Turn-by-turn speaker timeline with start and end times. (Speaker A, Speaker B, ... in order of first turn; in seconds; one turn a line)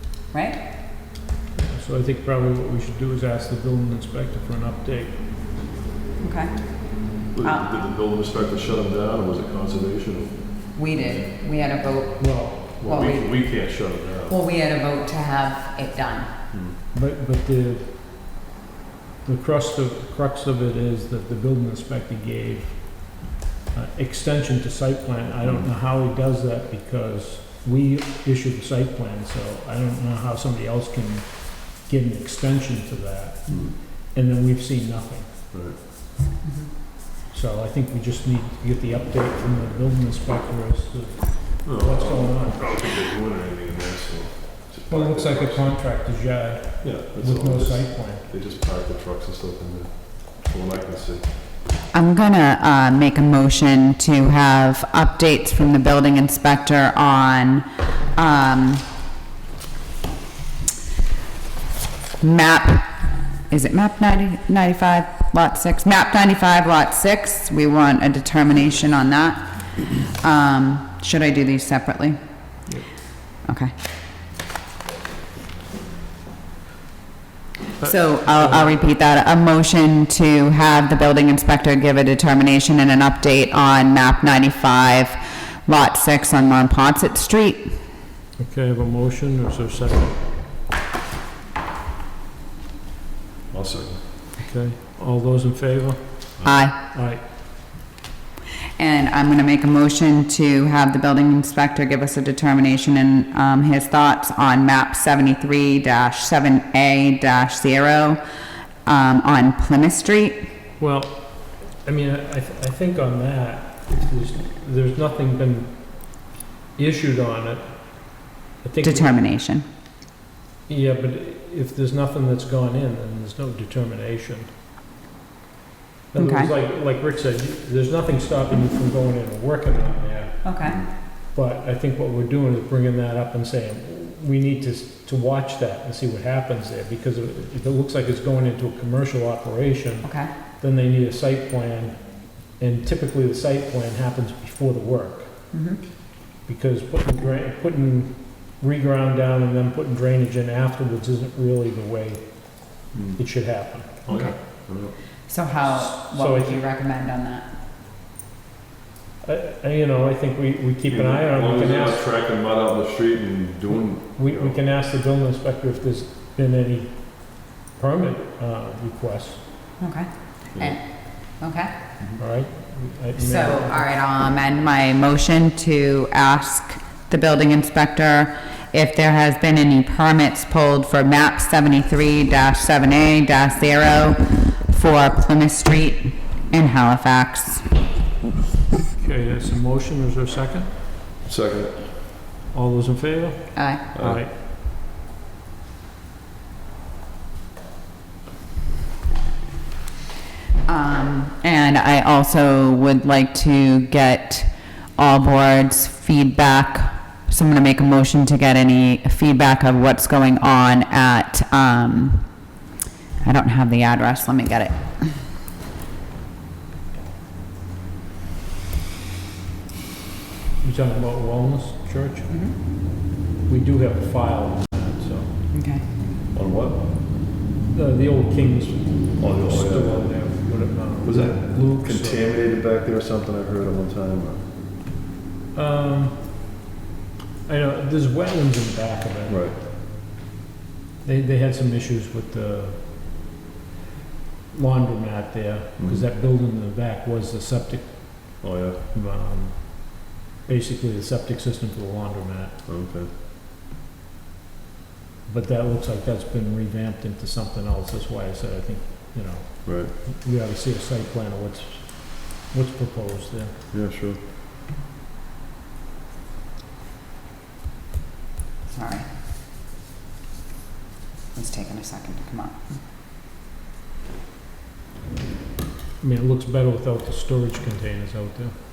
Speaker A: 0.3-0.6
Speaker B: 1.6-5.2
Speaker A: 6.2-7.7
Speaker C: 7.3-11.3
Speaker A: 10.7-13.4
Speaker B: 12.2-12.9
Speaker C: 12.8-14.3
Speaker A: 14.3-16.3
Speaker B: 16.9-18.0
Speaker B: 19.2-35.4
Speaker C: 25.4-25.7
Speaker C: 33.5-33.8
Speaker C: 35.5-35.8
Speaker A: 36.4-36.7
Speaker B: 37.3-42.6
Speaker C: 41.6-45.7
Speaker B: 44.9-48.3
Speaker C: 46.8-51.2
Speaker A: 51.9-58.8
Speaker A: 62.2-62.9
Speaker A: 63.5-69.5
Speaker A: 70.1-72.2
Speaker A: 73.4-73.7
Speaker A: 77.8-87.7
Speaker B: 77.8-78.8
Speaker B: 88.4-90.2
Speaker C: 93.5-94.0
Speaker B: 94.4-96.4
Speaker C: 96.4-96.6
Speaker A: 96.4-96.8
Speaker B: 96.9-97.2
Speaker A: 98.8-108.2
Speaker A: 108.8-110.4
Speaker B: 110.8-115.8
Speaker B: 116.8-119.2
Speaker A: 118.8-119.6
Speaker B: 120.7-124.5
Speaker B: 126.1-130.4
Speaker A: 126.2-126.5
Speaker A: 130.4-130.8
Speaker B: 131.2-140.1
Speaker A: 140.0-140.3
Speaker B: 140.6-145.4
Speaker A: 145.5-145.8
Speaker B: 146.4-154.1
Speaker C: 152.9-153.2
Speaker C: 154.1-154.9
Speaker A: 154.1-154.3
Speaker A: 155.3-157.5
Speaker B: 155.7-156.6
Speaker B: 159.2-162.0
Speaker C: 160.9-164.5
Speaker B: 164.1-169.4
Speaker A: 169.8-171.7
Speaker B: 172.2-173.9
Speaker A: 173.2-187.6
Speaker B: 189.0-190.7
Speaker C: 191.2-191.8
Speaker B: 192.5-194.3
Speaker A: 193.5-193.8
Speaker C: 193.9-194.2
Speaker A: 200.7-212.3
Speaker A: 213.2-215.1
Speaker B: 220.6-222.3
Speaker A: 222.3-222.5
Speaker B: 223.4-225.4
Speaker A: 225.5-225.8
Speaker C: 226.3-226.8
Speaker B: 227.7-232.2
Speaker C: 229.2-230.3
Speaker C: 231.0-234.4
Speaker B: 235.5-236.2
Speaker B: 237.4-239.6
Speaker C: 239.3-239.6
Speaker B: 241.0-242.8
Speaker B: 244.5-252.6
Speaker C: 245.8-246.0
Speaker C: 248.4-248.8
Speaker C: 252.7-253.1
Speaker B: 255.3-263.6
Speaker C: 259.6-259.9
Speaker C: 263.7-264.2
Speaker A: 268.7-269.1
Speaker A: 271.3-272.6
Speaker B: 276.0-278.5